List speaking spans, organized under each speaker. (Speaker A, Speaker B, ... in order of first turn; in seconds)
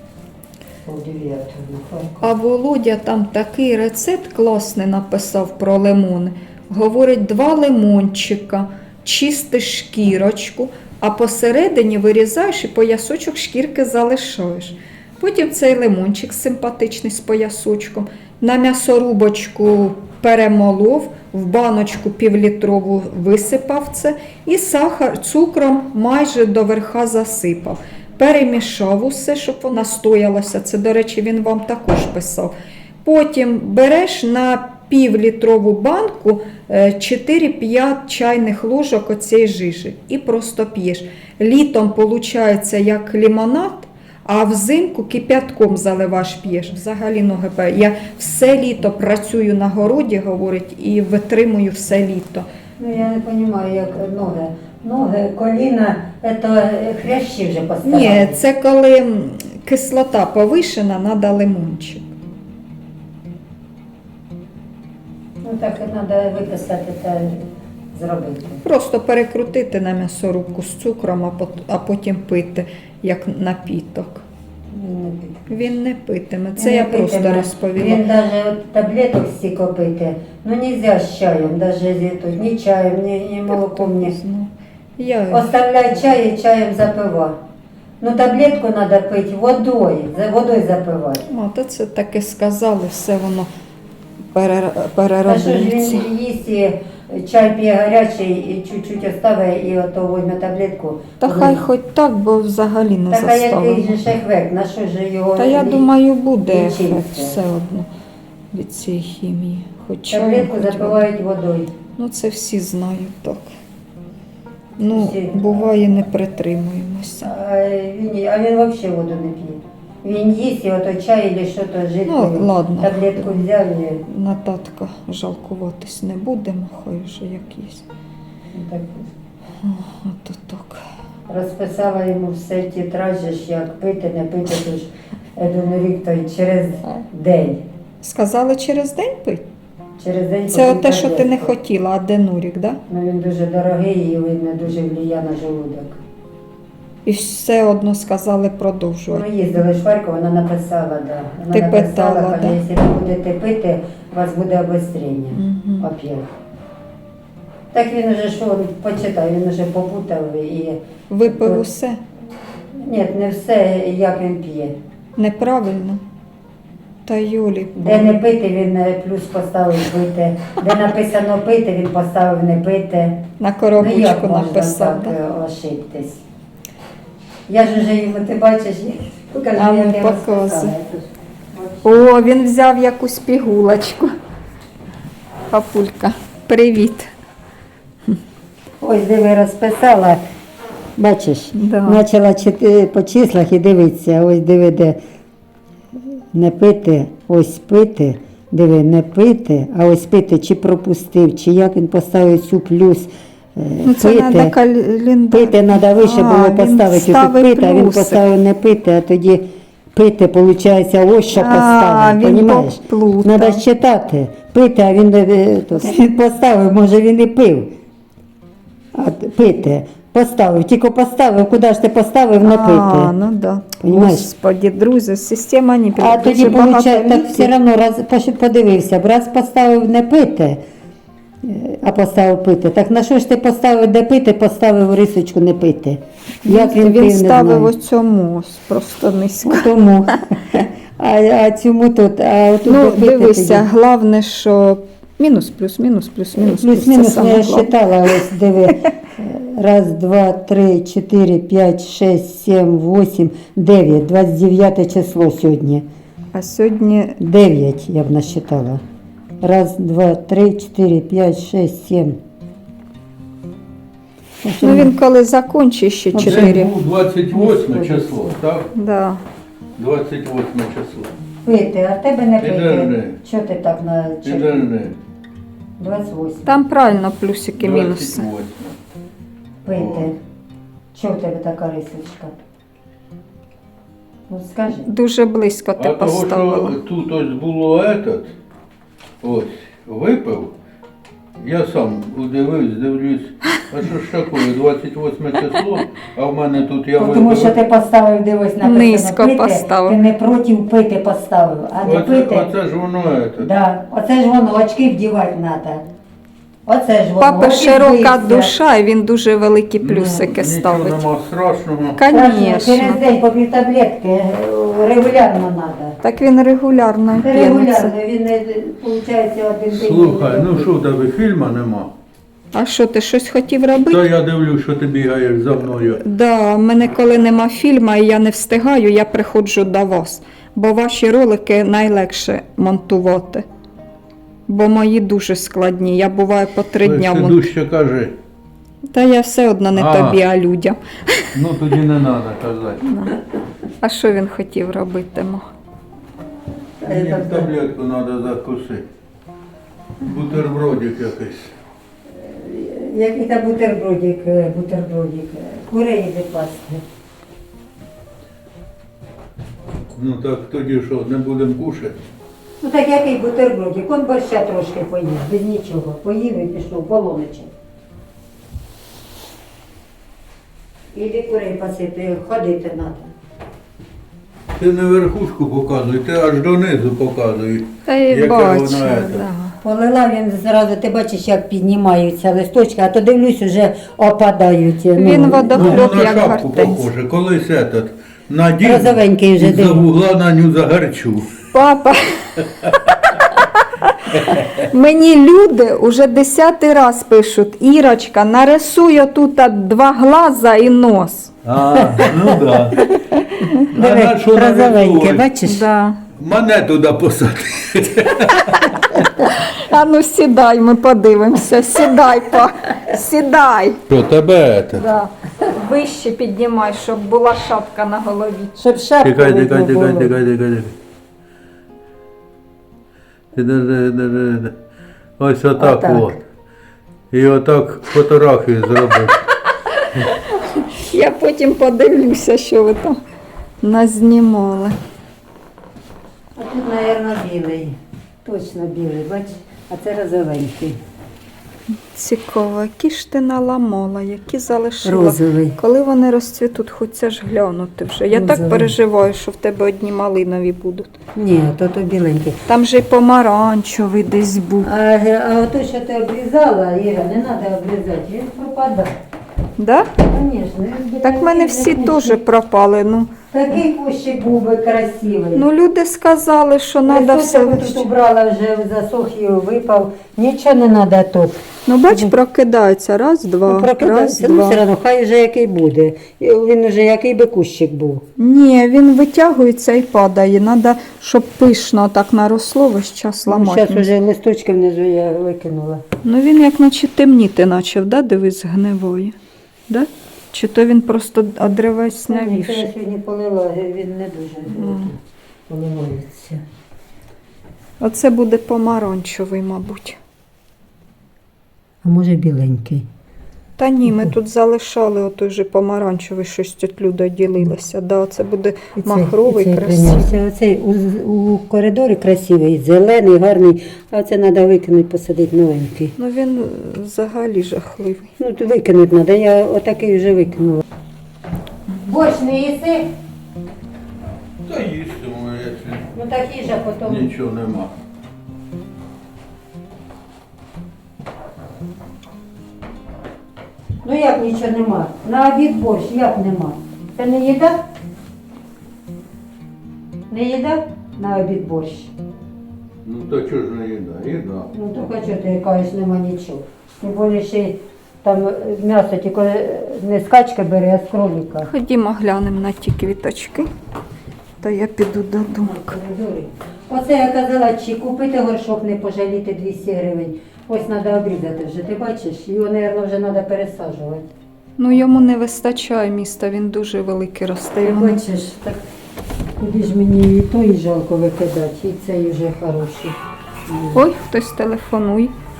Speaker A: 0.8-2.3, 52.8-58.4, 65.4-68.6, 74.7-75.7, 76.6-84.1, 85.3-87.4, 88.0-91.2, 95.2-101.6, 103.1-105.8, 106.4-107.4, 110.1-111.7, 114.9-116.0, 117.2-124.0, 128.5-129.1, 131.3-137.6, 140.0-141.5, 142.9-146.0, 149.1-156.3, 157.7-161.6, 162.7-164.8, 167.8-173.2, 173.8-176.2, 177.5-182.1, 188.8-190.2, 191.0-195.0, 196.3-204.5, 205.3-217.7, 218.9-223.1, 223.8-224.3, 225.9-230.6, 231.4-237.7, 239.4-243.7, 246.3-255.8, 257.2-258.8, 259.4-262.2, 264.4-264.9, 266.1-266.6, 267.3-268.4, 271.4-274.7, 275.8-276.6, 279.6-280.2, 280.9-282.4, 284.3-284.9, 297.0-302.5, 303.4-305.8, 306.7-308.5, 312.1-316.0, 317.2-320.7, 346.8-347.5, 352.1-356.8, 362.6-367.5, 370.9-373.1, 379.6-385.8, 388.6-389.8, 401.9-402.9, 403.5-405.6, 418.6-420.1, 425.6-426.2, 436.4-440.8, 444.8-445.6, 448.1-448.7, 451.1-452.4, 454.6-458.9, 460.0-462.2, 463.3-465.4, 466.9-472.1, 473.5-478.0, 483.3-485.8, 492.0-495.0, 495.5-496.4, 501.8-502.9, 508.8-515.9, 518.2-520.6, 521.7-522.9, 525.9-527.1, 533.8-537.6, 540.1-541.9, 544.5-551.5, 555.4-564.1, 567.6-568.6, 569.4-573.8
Speaker B: 2.2-52.5, 57.9-62.1, 68.6-74.2, 75.5-78.0, 83.5-85.5, 91.3-93.5, 94.3-96.1, 101.2-104.0, 105.4-107.9, 108.5-111.0, 112.0-113.5, 114.8-117.3, 122.1-123.5, 124.0-127.8, 129.6-130.8, 138.0-139.4, 140.5-142.8, 147.1-149.2, 151.5-152.6, 155.3-155.9, 161.1-162.0, 165.2-166.0, 167.1-168.2, 173.4-175.1, 179.5-180.7, 181.8-184.1, 185.5-187.1, 191.6-192.0, 203.8-208.2, 211.3-213.6, 222.4-227.5, 236.4-239.7, 242.6-247.7, 256.3-257.2, 264.6-266.7, 268.7-269.2, 276.4-278.3, 284.9-286.8, 298.6-300.0, 307.2-311.0, 311.9-313.0, 316.0-317.9, 322.5-324.0, 325.9-333.4, 334.5-337.5, 338.9-341.3, 342.8-343.2, 343.8-345.4, 377.9-379.6, 384.9-386.9, 391.5-401.3, 405.4-406.0, 408.9-413.8, 414.8-418.6, 429.7-433.0, 433.6-434.8, 441.9-450.9, 452.5-454.7, 459.6-459.9, 461.0-463.6, 465.3-467.9, 471.7-474.6, 478.2-483.9, 486.0-489.1, 489.7-492.7, 494.5-494.9, 497.8-500.0, 503.6-510.2, 516.0-518.1, 551.5-553.5, 554.4-555.7, 564.6-568.0, 573.7-575.1
Speaker C: 266.2-268.7, 269.8-271.1, 272.4-273.2, 274.2-275.0, 277.6-278.7, 279.7-280.1, 285.8-288.3, 289.2-290.5, 291.4-297.5, 301.8-303.5, 309.8-312.0, 319.7-321.9, 323.9-326.0, 336.8-338.2, 339.7-340.2, 341.3-342.8, 346.8-348.9, 350.0-351.5, 359.9-362.0, 374.6-379.2, 385.5-391.3, 394.1-394.7, 401.4-402.9, 403.7-405.3, 406.2-409.0, 413.9-414.9, 419.0-420.8, 423.3-424.5, 425.2-426.2, 427.1-429.1, 524.5-525.9, 526.9-527.7, 542.8-544.5